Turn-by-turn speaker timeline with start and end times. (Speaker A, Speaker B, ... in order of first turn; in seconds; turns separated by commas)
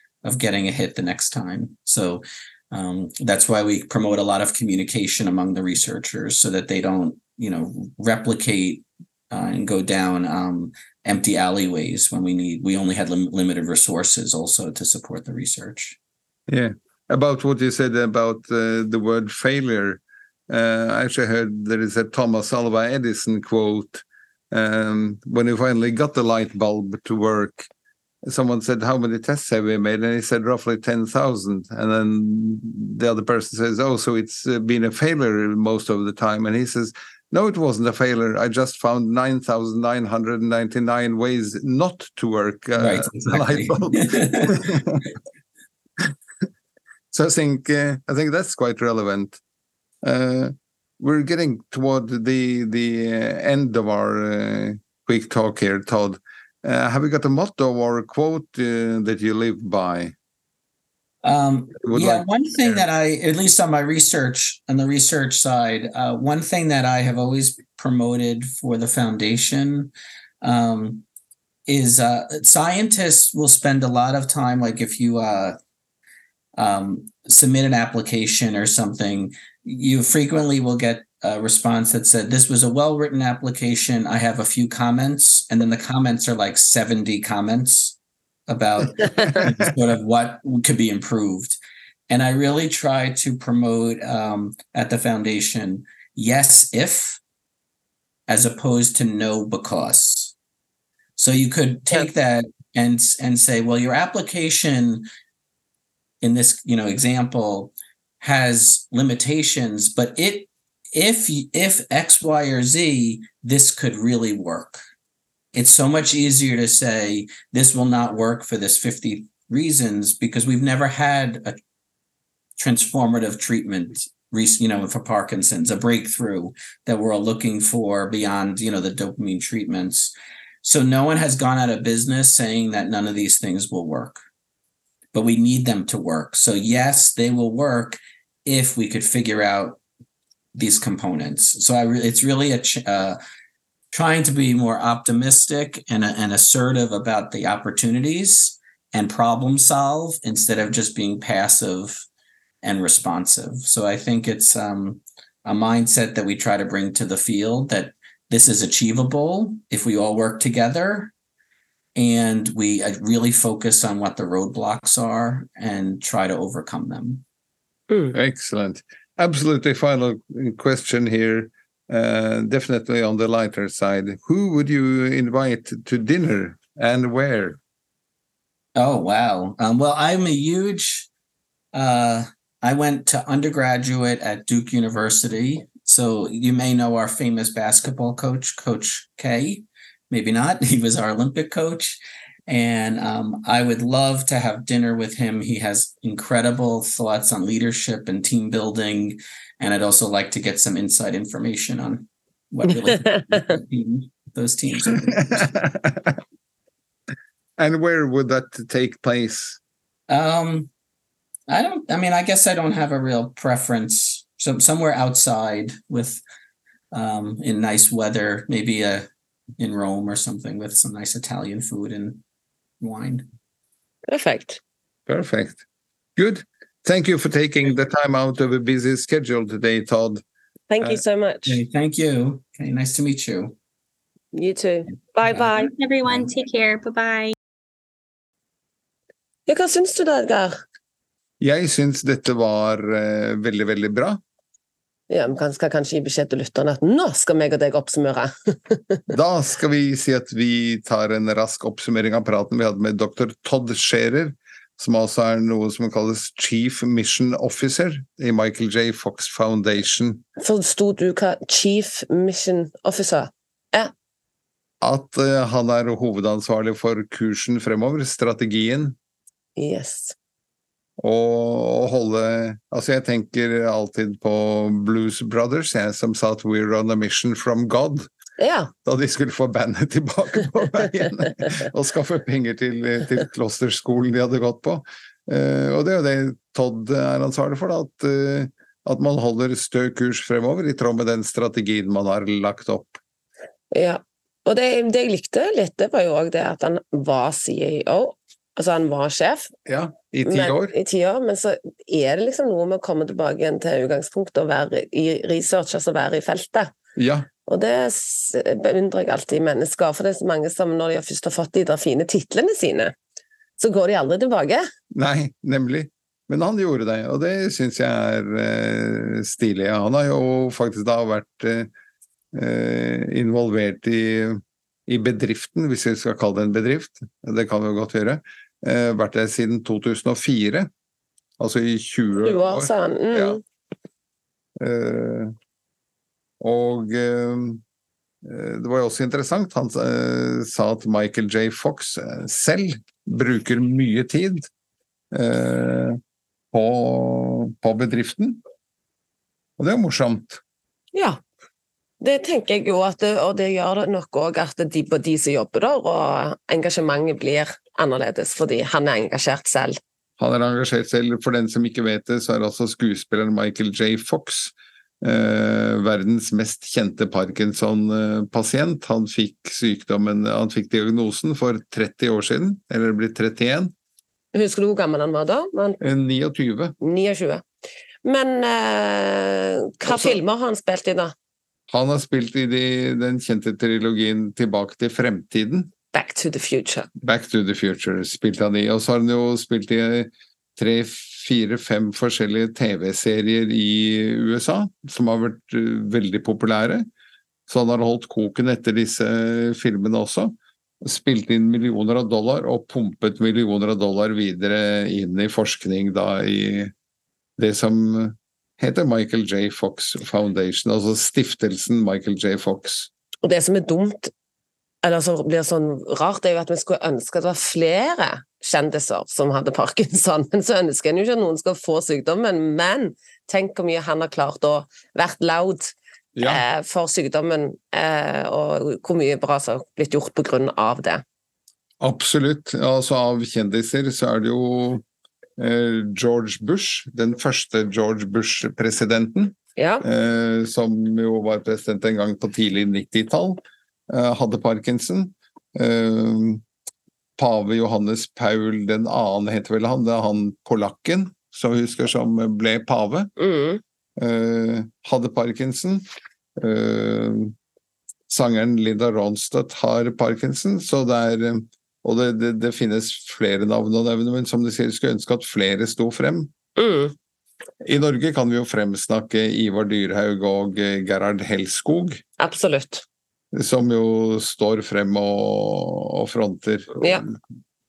Speaker A: 0.2-16.0, Speaker B: 16.5-27.7, Speaker B: 28.2-45.1, Speaker A: 42.8-44.7, Speaker B: 47.1-49.4, Speaker B: 50.0-60.1, Speaker A: 61.2-71.1, Speaker B: 61.8-62.9, Speaker A: 71.7-75.6, Speaker A: 76.6-88.0, Speaker A: 88.5-91.6, Speaker A: 92.1-97.2, Speaker A: 98.3-100.3, Speaker A: 101.2-105.1, Speaker A: 106.2-114.8, Speaker A: 115.5-121.6, Speaker A: 122.6-134.2, Speaker A: 135.1-139.8, Speaker A: 140.6-143.2, Speaker A: 143.9-152.1, Speaker A: 152.6-161.1, Speaker A: 162.0-167.2, Speaker B: 168.1-177.6, Speaker A: 178.8-181.1, Speaker A: 181.7-205.5, Speaker B: 205.3-206.2, Speaker B: 207.6-209.6, Speaker A: 210.1-210.7, Speaker A: 211.5-216.2, Speaker A: 216.9-222.2, Speaker A: 222.8-223.3, Speaker C: 224.1-224.6, Speaker B: 225.1-225.6, Speaker B: 226.2-230.2, Speaker C: 230.7-231.6, Speaker A: 231.5-233.6, Speaker C: 234.3-235.7, Speaker D: 235.3-237.3, Speaker C: 239.5-240.6, Speaker B: 241.4-244.2, Speaker C: 245.1-249.0, Speaker B: 249.1-260.2, Speaker C: 260.4-263.9, Speaker B: 264.8-269.0, Speaker C: 269.6-270.1, Speaker B: 271.0-278.1, Speaker C: 278.4-278.7, Speaker B: 278.9-293.0, Speaker C: 293.7-299.5, Speaker B: 299.7-300.7, Speaker C: 300.2-306.7, Speaker B: 307.0-307.3, Speaker C: 307.5-312.9, Speaker C: 313.6-314.7, Speaker B: 314.9-321.7, Speaker B: 322.3-330.7, Speaker B: 331.4-333.4, Speaker C: 332.2-333.4, Speaker B: 334.6-335.3, Speaker B: 336.4-337.6, Speaker B: 338.2-344.5, Speaker B: 345.1-346.0, Speaker B: 346.5-348.4, Speaker B: 349.6-350.4, Speaker C: 350.9-351.2, Speaker C: 352.0-359.8, Speaker B: 360.2-373.7, Speaker C: 374.3-375.8, Speaker B: 375.8-376.8, Speaker C: 376.8-377.4, Speaker C: 378.0-381.1, Speaker B: 379.8-380.2, Speaker B: 381.7-385.7, Speaker C: 385.9-386.9, Speaker B: 387.0-396.9, Speaker B: 397.5-406.7, Speaker B: 407.4-412.9, Speaker C: 413.2-414.1, Speaker C: 414.8-431.0, Speaker B: 426.2-426.4, Speaker B: 431.8-434.8, Speaker B: 435.4-446.4, Speaker C: 439.6-439.9, Speaker B: 447.2-453.1, Speaker C: 453.2-453.6, Speaker B: 454.0-455.9, Speaker B: 456.4-457.4, Speaker B: 458.1-466.3, Speaker C: 466.6-466.9, Speaker B: 467.6-472.0, Speaker C: 472.2-472.8, Speaker B: 473.3-477.2